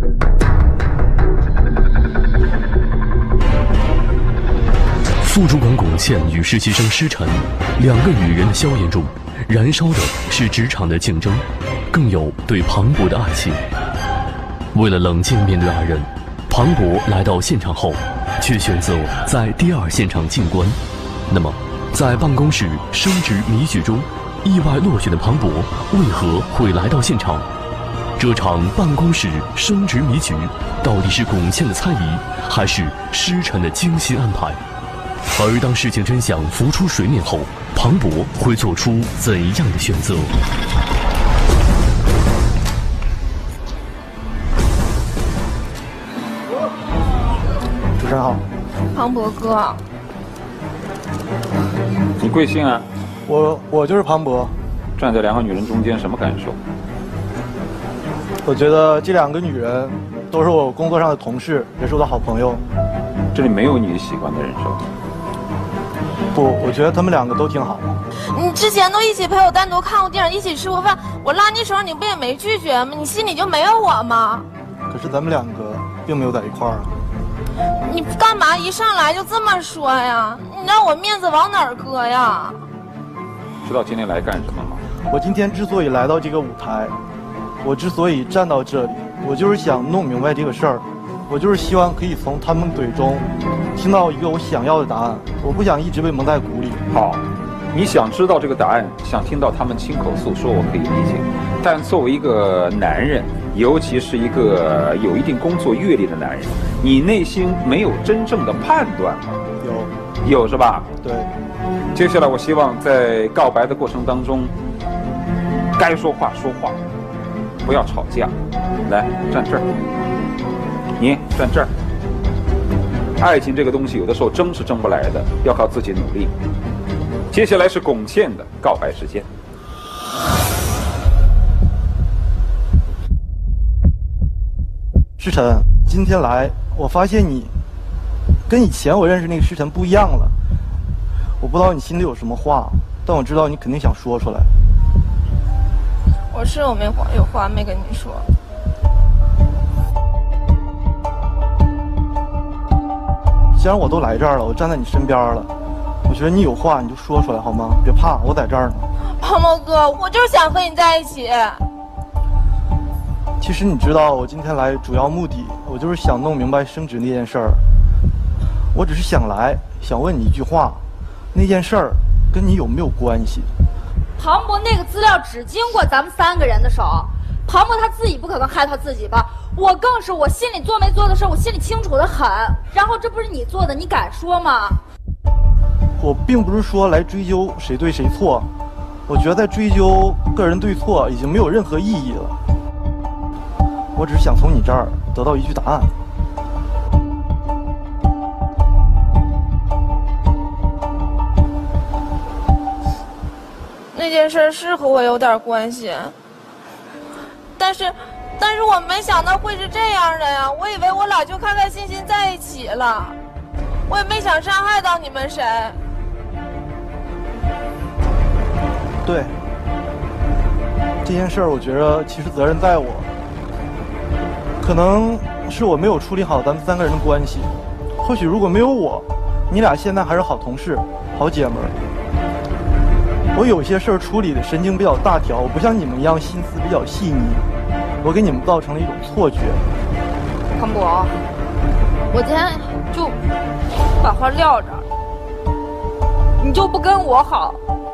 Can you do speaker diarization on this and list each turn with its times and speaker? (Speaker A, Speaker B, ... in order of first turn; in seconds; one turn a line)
Speaker A: 5.2-13.6
Speaker A: 14.7-27.5
Speaker A: 28.2-34.6
Speaker A: 35.3-40.3
Speaker B: 48.0-48.4
Speaker C: 48.9-49.8
Speaker D: 52.2-52.9
Speaker B: 53.2-54.5
Speaker D: 55.0-56.6
Speaker B: 58.4-62.6
Speaker D: 63.3-64.8
Speaker B: 66.3-68.0
Speaker C: 68.3-74.5
Speaker B: 74.9-77.0
Speaker C: 77.9-82.6
Speaker D: 83.6-84.8
Speaker B: 85.1-86.9
Speaker B: 87.6-96.8
Speaker D: 96.9-109.4
Speaker B: 109.6-109.9
Speaker D: 110.2-110.9
Speaker B: 111.0-111.3
Speaker D: 111.9-114.5
Speaker D: 115.8-116.8
Speaker D: 117.6-118.3
Speaker D: 118.8-119.6
Speaker D: 121.0-121.7
Speaker D: 123.2-126.3
Speaker D: 127.3-129.3
Speaker B: 135.2-137.5
Speaker B: 138.5-140.3
Speaker B: 141.4-144.5
Speaker C: 146.3-148.3
Speaker B: 153.6-155.5
Speaker B: 156.1-158.9
Speaker C: 159.2-161.6
Speaker B: 163.4-167.6
Speaker B: 168.7-170.8
Speaker B: 171.3-173.5
Speaker E: 174.2-184.8
Speaker B: 186.0-188.5
Speaker B: 189.1-192.4
Speaker B: 193.9-195.9
Speaker C: 203.9-206.1
Speaker C: 207.6-213.2
Speaker C: 213.9-215.8
Speaker B: 219.0-219.3
Speaker B: 221.0-223.1
Speaker B: 224.6-231.8
Speaker B: 233.3-237.4
Speaker B: 238.0-239.6
Speaker E: 240.5-241.2
Speaker E: 242.1-243.2
Speaker E: 244.0-244.8
Speaker E: 246.4-247.6